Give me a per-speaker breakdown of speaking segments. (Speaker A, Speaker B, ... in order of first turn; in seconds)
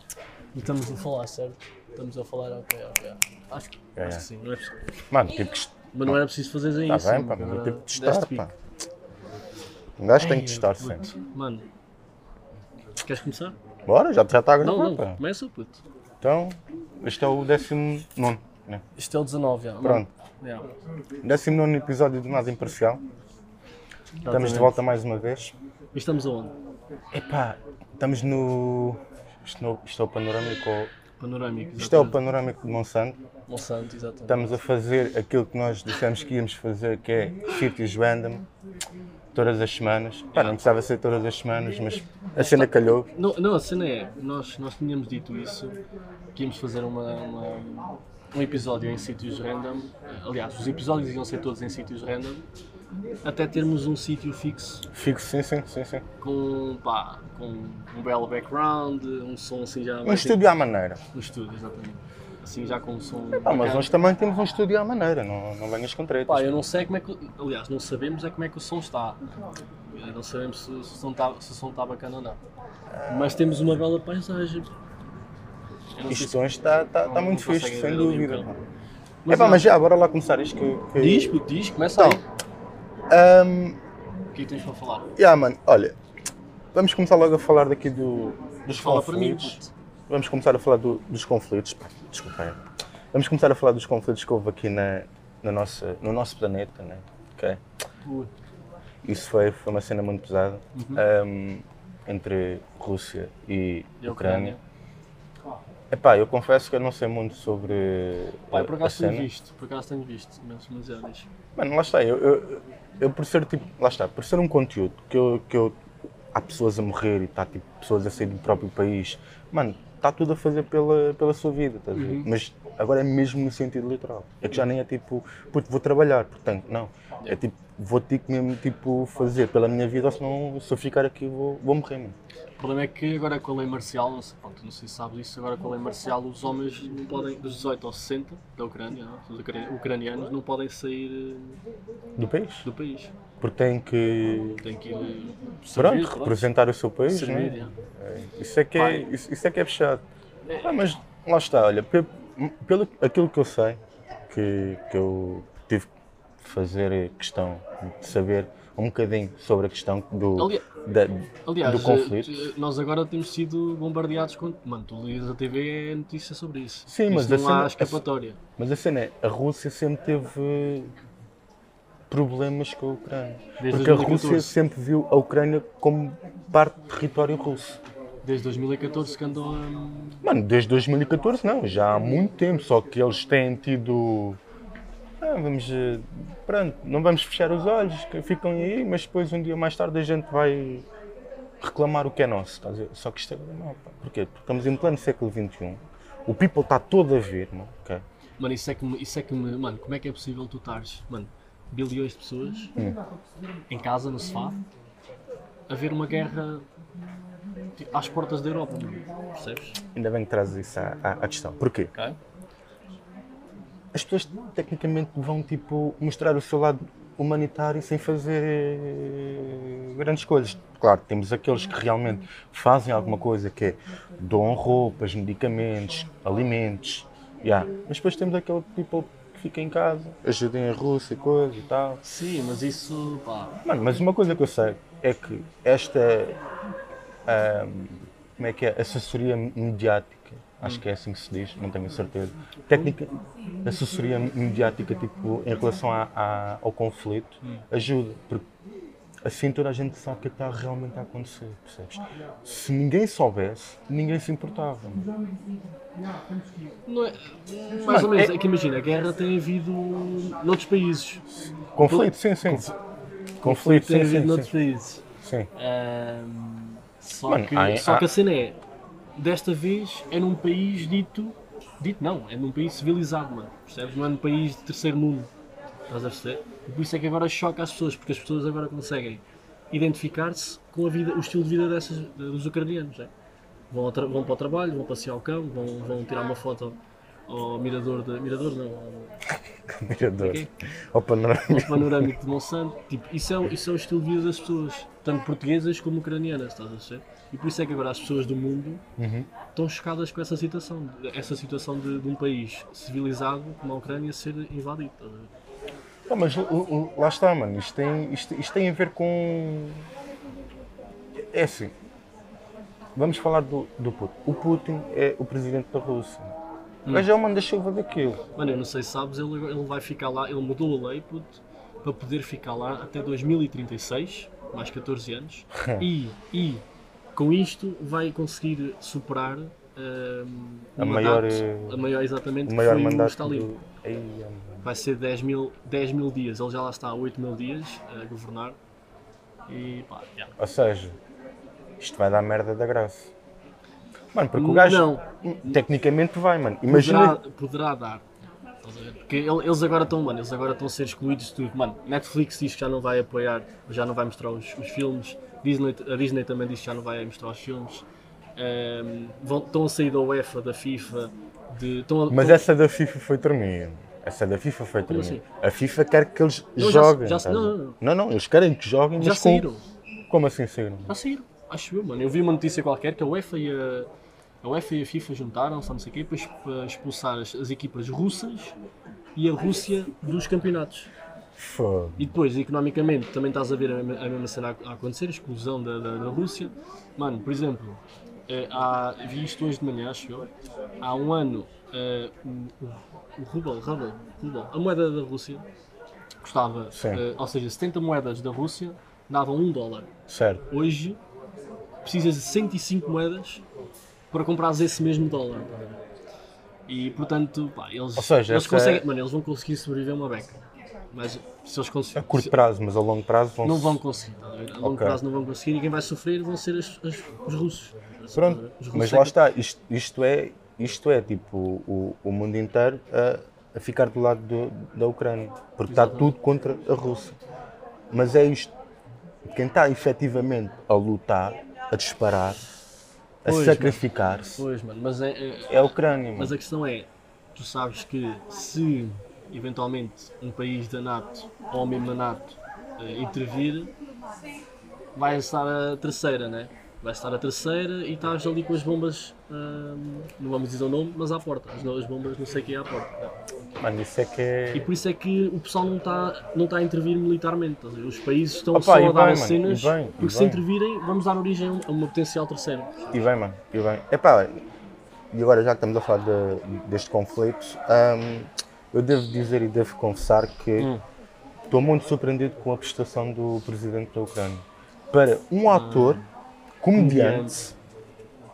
Speaker A: 0.5-4.8, 5.9-8.5, 10.2-11.7, 13.0-13.6, 14.6-15.8, 18.9-20.7, 24.2-24.8, 25.9-26.5, 31.2-32.2, 33.5-34.5, 40.3-40.6, 42.4-45.8, 46.3-52.4, 53.2-54.9, 56.2-60.4, 61.1-63.9, 66.3-69.2, 69.9-72.4, 73.1-74.7, 76.0-76.4, 77.0-78.5, 79.2-79.7, 81.0-82.2, 84.3-85.1, 88.7-89.7, 98.0-98.3, 100.7-101.0, 104.0-104.6, 108.5-111.3, 121.9-122.3, 132.6-141.6, 142.6-143.1, 144.6-146.5, 147.1-147.7, 148.8-149.1, 150.5-150.8, 160.3-160.6, 161.4-168.4, 173.6-174.5, 178.2-180.2, 198.4-202.7, 203.7-204.6, 205.7-206.6, 207.8-209.8, 232.0-233.6, 256.9-261.2, 261.8-262.8, 263.4-265.0, 265.5-268.6, 269.1-275.3, 275.9-283.1, 283.7-289.1, 290.2-290.5, 291.5-298.8, 299.5-305.3, 318.4-326.6, 327.1-333.5, 334.6-338.6, 339.5-340.3, 344.3-345.6, 346.7-348.1, 348.6-357.8, 358.4-362.4, 364.9-365.2, 366.6-367.8, 369.0-369.6, 370.9-373.9, 374.4-378.6, 379.1-380.9, 382.0-395.4, 396.2-399.9, 400.5-401.0, 401.8-403.4, 404.1-405.8, 406.7-410.4, 410.9-412.3, 413.4-419.2, 425.7-426.1, 433.3-433.8, 434.4-435.6, 436.1-443.7, 444.9-453.1, 454.5-462.9, 470.6-470.8, 475.5-476.1, 476.7-477.5
Speaker B: 4.0-4.2, 5.1-6.2, 6.9-8.5, 10.0-11.1, 13.9-15.2, 16.2-18.8, 19.8-20.1, 21.2-23.0, 24.2-25.5, 27.1-30.9, 31.8-33.2, 34.3-38.5, 39.3-43.1, 54.9-56.0, 60.0-61.0, 63.4-66.6, 73.0-73.4, 76.1-78.6, 79.3-81.4, 81.9-82.2, 83.1-83.8, 85.2-86.0, 86.7-92.6, 93.1-97.6, 99.0-104.6, 105.9-109.3, 111.5-115.8, 116.3-132.2, 142.2-142.7, 143.4-144.6, 145.8-150.0, 150.6-162.4, 166.9-168.0, 168.6-170.9, 172.1-177.8, 180.2-184.4, 185.2-190.9, 191.6-198.0, 209.9-211.9, 213.9-232.0, 233.6-236.4, 237.3-248.4, 249.2-255.1, 257.9-258.3, 261.6-262.7, 263.4-264.5, 265.2-265.5, 267.3-268.1, 289.7-292.1, 299.0-299.3, 306.1-309.9, 311.3-311.7, 312.9-316.4, 316.9-318.2, 325.5-325.9, 330.8-331.8, 332.4-334.6, 340.4-341.0, 341.8-343.1, 344.1-347.2, 362.1-369.5, 370.1-370.9, 381.4-382.1, 396.7-397.0, 400.1-400.4, 407.9-408.8, 411.9-413.8, 414.6-415.0, 418.1-427.2, 427.9-428.5, 429.2-432.5, 433.2-434.4, 435.5-436.3, 453.6-454.7, 458.5-460.4, 462.9-464.4, 465.1-470.7, 471.5-476.0, 476.6-477.4